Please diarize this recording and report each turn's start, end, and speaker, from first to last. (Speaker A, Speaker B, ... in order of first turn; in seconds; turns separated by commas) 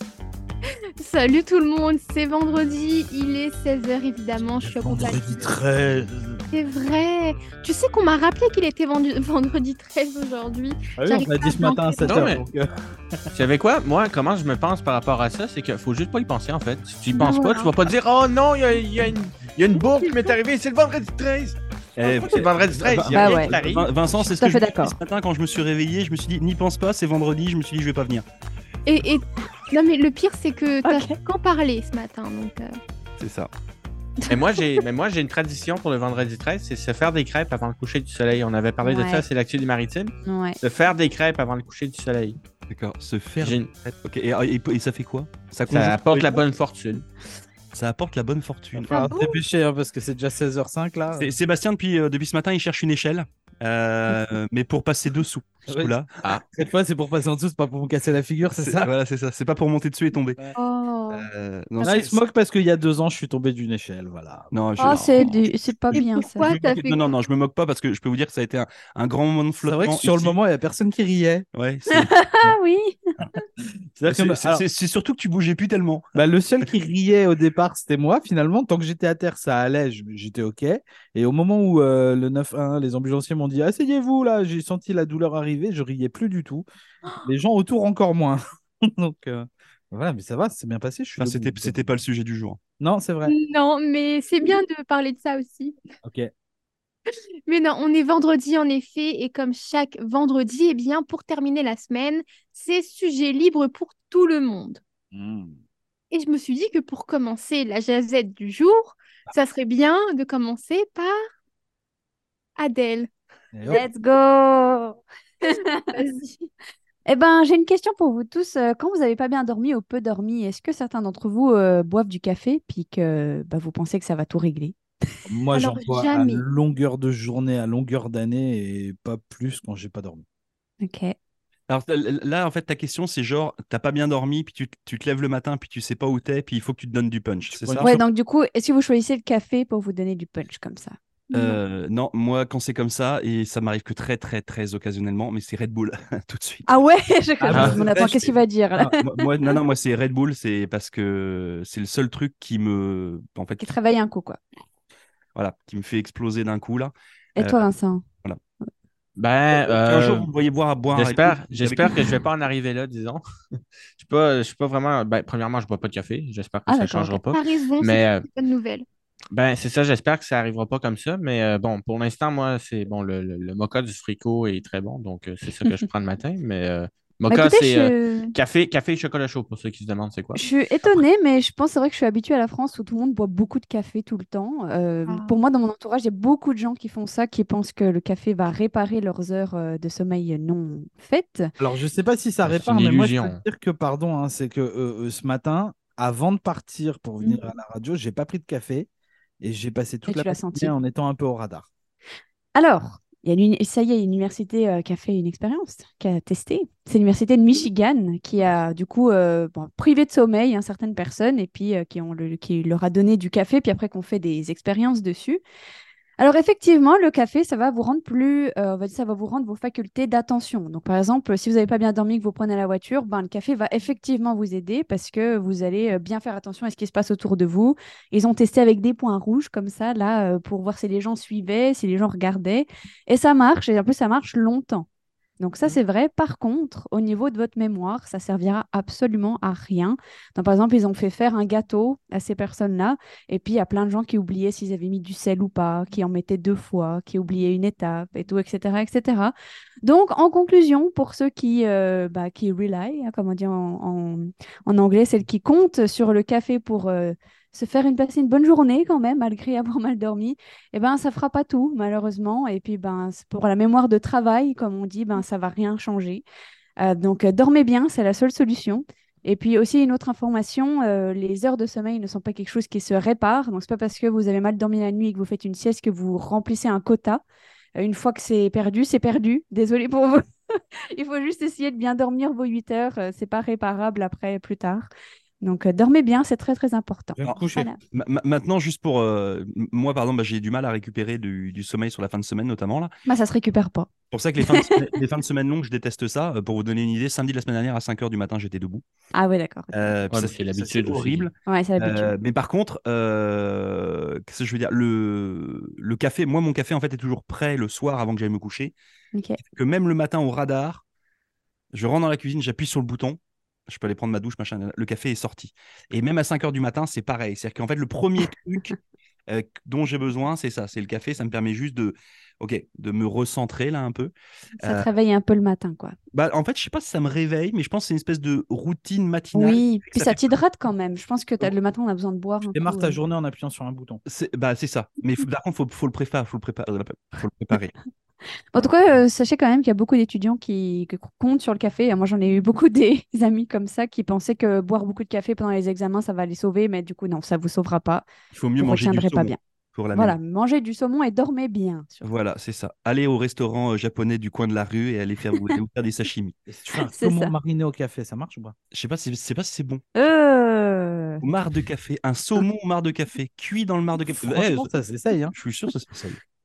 Speaker A: 1.0-5.5, Speaker B: 4.6-6.4, Speaker A: 6.5-12.2, Speaker B: 11.0-12.7, Speaker C: 12.1-12.4, Speaker C: 13.3-21.6, Speaker D: 17.2-17.7, Speaker A: 17.2-17.6, Speaker A: 20.0-20.3, Speaker E: 22.0-28.2, Speaker C: 22.1-23.9, Speaker D: 23.1-23.5, Speaker D: 24.2-25.0, Speaker A: 28.9-32.7, Speaker D: 30.9-31.2, Speaker E: 33.2-33.5, Speaker A: 34.2-34.6, Speaker C: 34.3-42.4, Speaker D: 38.8-39.2, Speaker D: 40.2-40.6, Speaker E: 42.7-46.4, Speaker C: 43.4-43.7, Speaker C: 45.7-47.1, Speaker E: 47.7-49.0, Speaker B: 48.8-51.3, Speaker A: 48.9-49.4, Speaker E: 51.2-56.2, Speaker B: 55.7-56.0, Speaker B: 56.5-58.9, Speaker E: 58.5-60.4, Speaker A: 60.6-61.3, Speaker E: 61.1-62.2, Speaker B: 61.8-65.0, Speaker E: 64.5-70.4, Speaker D: 64.8-66.5, Speaker A: 65.9-67.1, Speaker B: 69.6-71.5, Speaker E: 71.5-72.6, Speaker D: 71.9-73.4, Speaker B: 74.0-74.6, Speaker E: 74.1-76.1, Speaker B: 76.2-86.7, Speaker B: 87.2-92.0, Speaker E: 91.2-92.6, Speaker B: 92.8-93.3, Speaker A: 93.3-95.8, Speaker B: 96.0-96.3, Speaker A: 97.1-104.8, Speaker B: 105.1-105.6, Speaker A: 106.1-111.2, Speaker A: 112.6-113.1, Speaker B: 113.5-113.8, Speaker D: 113.7-115.9, Speaker A: 115.4-116.5, Speaker D: 117.1-124.8, Speaker B: 125.3-130.2, Speaker A: 125.5-126.5, Speaker D: 130.8-131.2, Speaker E: 131.7-137.9, Speaker B: 137.5-138.0, Speaker D: 137.8-141.0, Speaker A: 141.3-141.6, Speaker E: 141.3-146.7, Speaker D: 146.7-149.2, Speaker B: 147.4-148.9, Speaker E: 147.5-148.3, Speaker E: 149.0-153.8, Speaker D: 153.6-154.4, Speaker E: 155.3-157.7, Speaker D: 157.4-158.0, Speaker C: 159.2-160.3, Speaker E: 159.5-162.2, Speaker C: 160.9-163.2, Speaker C: 164.0-168.2, Speaker D: 166.7-167.2, Speaker A: 167.3-168.8, Speaker C: 169.3-181.0, Speaker D: 177.3-178.3, Speaker D: 180.3-191.5, Speaker A: 185.1-185.4, Speaker B: 191.6-198.9, Speaker C: 192.4-193.4, Speaker B: 199.4-201.7, Speaker D: 200.1-200.7, Speaker D: 202.6-215.4, Speaker D: 216.2-234.9, Speaker D: 235.4-266.2, Speaker D: 266.8-277.2, Speaker D: 277.8-284.9, Speaker D: 285.4-287.8, Speaker B: 287.2-287.7, Speaker E: 287.2-292.9, Speaker D: 293.1-293.9, Speaker E: 294.1-298.8, Speaker D: 294.4-294.9, Speaker D: 299.1-299.9, Speaker E: 299.7-308.7, Speaker C: 300.1-301.3, Speaker D: 301.5-302.1, Speaker D: 309.1-309.4, Speaker E: 309.4-310.8, Speaker E: 311.7-318.8, Speaker E: 319.3-324.9, Speaker D: 324.6-326.0, Speaker E: 326.1-330.3, Speaker D: 329.3-333.0, Speaker B: 332.5-334.0, Speaker E: 334.1-337.8, Speaker D: 338.5-349.4, Speaker E: 348.3-350.2, Speaker D: 349.9-352.1, Speaker E: 352.0-356.4, Speaker B: 356.5-358.6, Speaker D: 356.9-357.3, Speaker E: 358.7-359.8, Speaker D: 359.9-361.2, Speaker E: 361.2-364.7, Speaker B: 364.1-365.4, Speaker E: 365.3-366.2